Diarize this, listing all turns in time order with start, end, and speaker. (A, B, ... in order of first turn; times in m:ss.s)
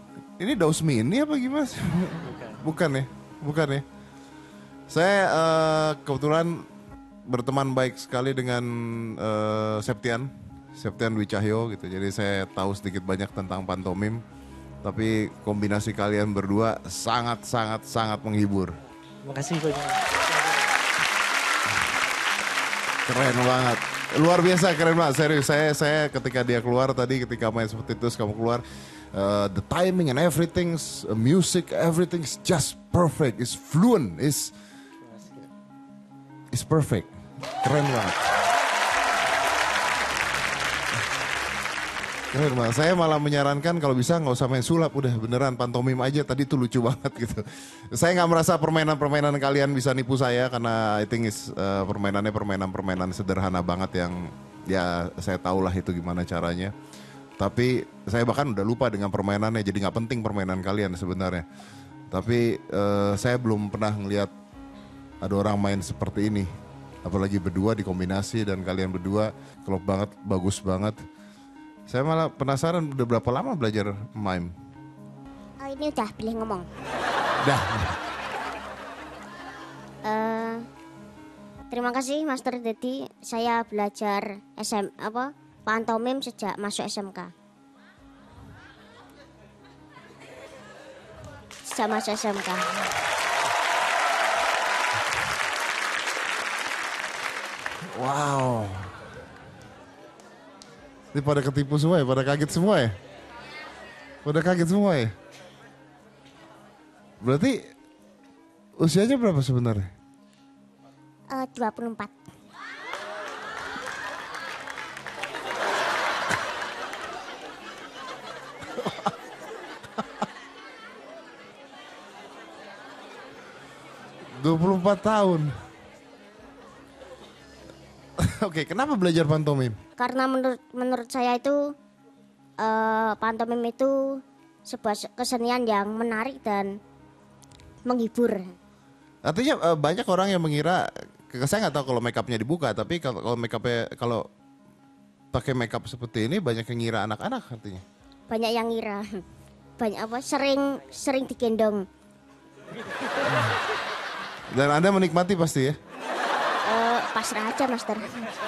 0:00.4-0:03.8 A
0:02.2-0:02.6 B
0:04.9-0:06.7 A
0:07.3-0:14.2 A
0:14.8-0:18.8 A
0:19.2-0:20.8 B
0:23.0-0:28.6 A
0:29.1-0:34.5 A
0:35.0-0:35.4 B
0:36.5-0:38.2 A
0:42.3-0:56.7 A
0:57.4-1:01.4 A
1:02.1-1:04.3 A
1:05.2-1:06.5 A
1:07.0-1:11.0 A
1:11.9-1:14.5 A
1:15.6-1:16.6 C
1:17.4-1:17.9 A
1:20.0-1:20.6 C
1:21.7-1:27.3 C
1:31.6-1:32.7 C
1:37.9-1:38.9 A
1:41.1-1:42.9 A
1:44.2-1:45.1 A
1:47.2-1:47.6 A
1:48.8-1:49.9 A
1:51.3-1:52.1 C
1:58.8-1:59.1 A
2:04.3-2:05.5 A
2:08.2-2:09.8 A
2:10.0-2:11.7 C
2:12.6-2:16.7 C
2:17.8-2:18.5 C
2:19.2-2:24.2 A
2:25.3-2:27.8 A
2:28.3-2:29.0 C
2:29.8-2:31.8 C
2:34.5-2:35.7 A
2:36.6-2:38.3 C